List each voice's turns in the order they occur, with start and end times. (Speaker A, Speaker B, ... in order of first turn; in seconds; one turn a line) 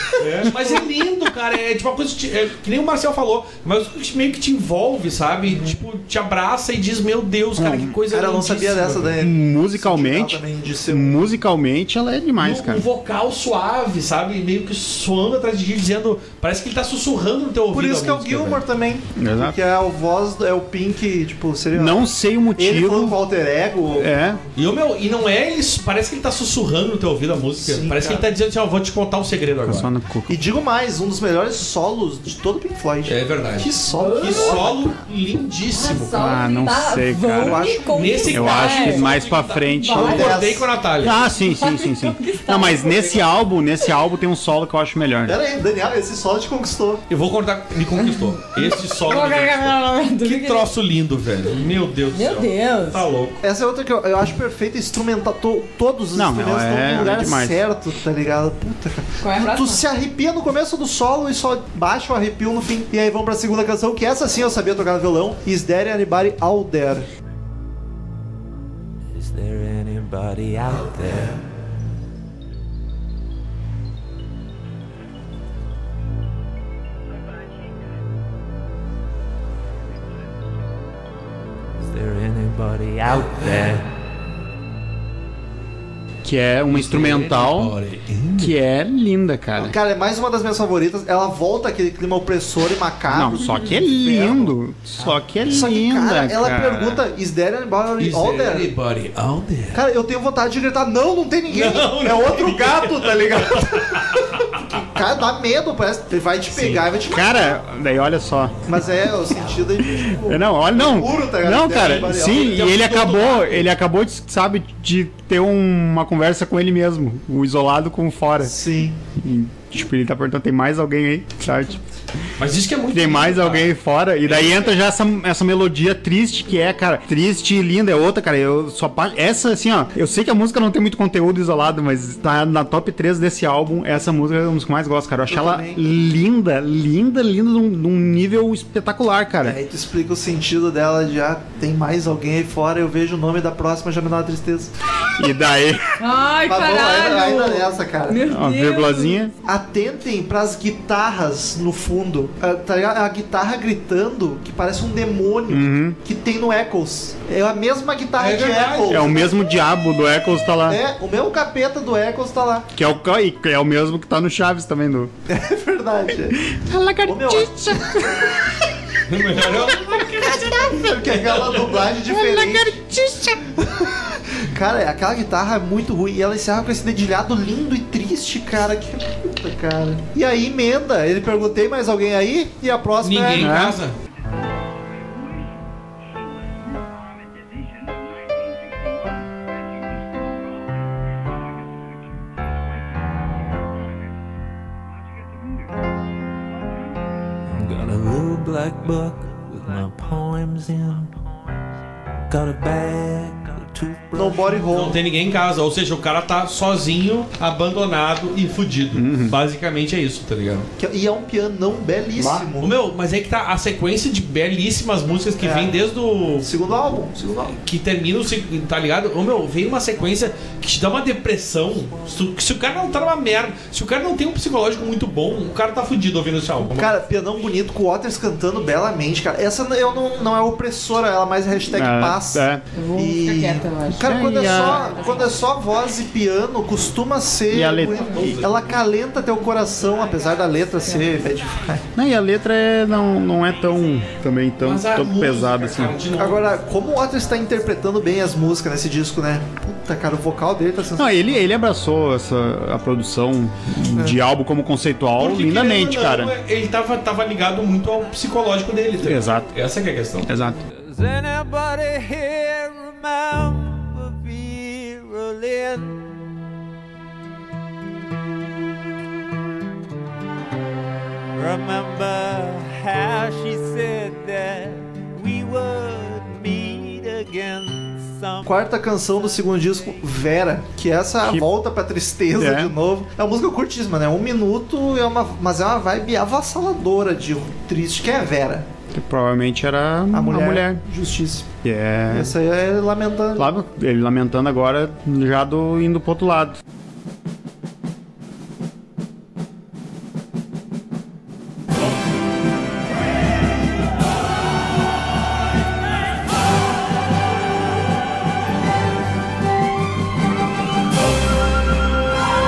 Speaker A: 0.2-9.2
Speaker B: 7.5-8.0
Speaker C: 8.1-11.2
Speaker B: 9.2-12.8
Speaker A: 12.4-18.6
Speaker C: 17.7-24.4
Speaker B: 19.2-19.6
Speaker B: 21.7-23.2
Speaker B: 24.0-24.4
Speaker A: 24.6-29.9
Speaker C: 27.6-28.2
Speaker B: 29.6-30.4
Speaker C: 30.3-34.8
Speaker A: 33.0-36.2
Speaker D: 33.9-34.7
Speaker D: 35.7-39.1
Speaker B: 36.2-37.7
Speaker C: 37.4-38.5
Speaker A: 37.9-41.2
Speaker B: 38.3-40.4
Speaker D: 39.7-40.3
Speaker C: 39.9-40.7
Speaker B: 41.0-45.4
Speaker D: 41.3-43.2
Speaker C: 45.3-47.0
Speaker A: 47.1-53.4
Speaker D: 48.0-50.7
Speaker D: 52.1-53.0
Speaker C: 53.4-67.1
Speaker B: 56.1-57.6
Speaker D: 59.2-59.8
Speaker E: 69.1-71.5
Speaker E: 81.8-83.9
Speaker B: 86.2-87.8
Speaker A: 86.7-88.6
Speaker B: 88.4-89.8
Speaker C: 89.6-94.5
Speaker B: 93.1-97.0
Speaker C: 95.5-98.7
Speaker A: 98.0-99.8
Speaker C: 99.7-107.5
Speaker A: 101.5-104.6
Speaker A: 106.6-106.8
Speaker B: 107.1-108.6
Speaker C: 108.7-112.7
Speaker B: 109.9-118.6
Speaker A: 111.8-113.7
Speaker C: 118.4-119.0
Speaker B: 119.2-121.8
Speaker A: 122.4-123.7
Speaker B: 122.9-139.6
Speaker A: 124.2-124.8
Speaker C: 135.3-135.8
Speaker C: 139.4-144.7
Speaker B: 145.2-145.8
Speaker D: 146.0-149.2
Speaker C: 146.5-148.3
Speaker B: 148.2-149.3
Speaker C: 149.4-159.3
Speaker B: 155.5-156.0
Speaker A: 158.2-159.2
Speaker B: 158.9-160.8
Speaker C: 160.7-162.7
Speaker B: 162.8-165.1
Speaker C: 165.3-166.4
Speaker B: 166.3-168.4
Speaker C: 167.1-168.5
Speaker A: 169.1-171.9
Speaker B: 169.6-170.9
Speaker C: 170.7-172.8
Speaker B: 172.1-173.4
Speaker C: 173.6-183.6
Speaker A: 183.0-184.0
Speaker B: 183.4-183.8
Speaker E: 197.5-201.2
Speaker E: 202.3-204.7
Speaker C: 204.2-205.0
Speaker A: 204.7-210.7
Speaker B: 208.9-209.4
Speaker C: 210.8-212.7
Speaker B: 212.2-212.5
Speaker A: 212.6-216.5
Speaker C: 215.4-215.8
Speaker C: 216.4-217.6
Speaker A: 217.5-227.0
Speaker C: 226.8-241.8
Speaker B: 231.7-232.7
Speaker D: 232.7-235.4
Speaker B: 234.0-234.9
Speaker B: 237.5-238.4
Speaker A: 238.1-238.8
Speaker B: 241.9-246.0
Speaker A: 244.6-246.5
Speaker C: 246.2-251.4
Speaker B: 251.0-256.4
Speaker A: 255.2-260.3
Speaker B: 259.0-259.5
Speaker B: 260.3-260.6
Speaker E: 260.8-266.1
Speaker E: 271.4-278.5
Speaker C: 278.4-288.7
Speaker B: 282.3-282.7
Speaker B: 288.9-290.8
Speaker C: 290.1-291.5
Speaker B: 291.6-292.4
Speaker C: 292.1-293.5
Speaker B: 293.4-296.6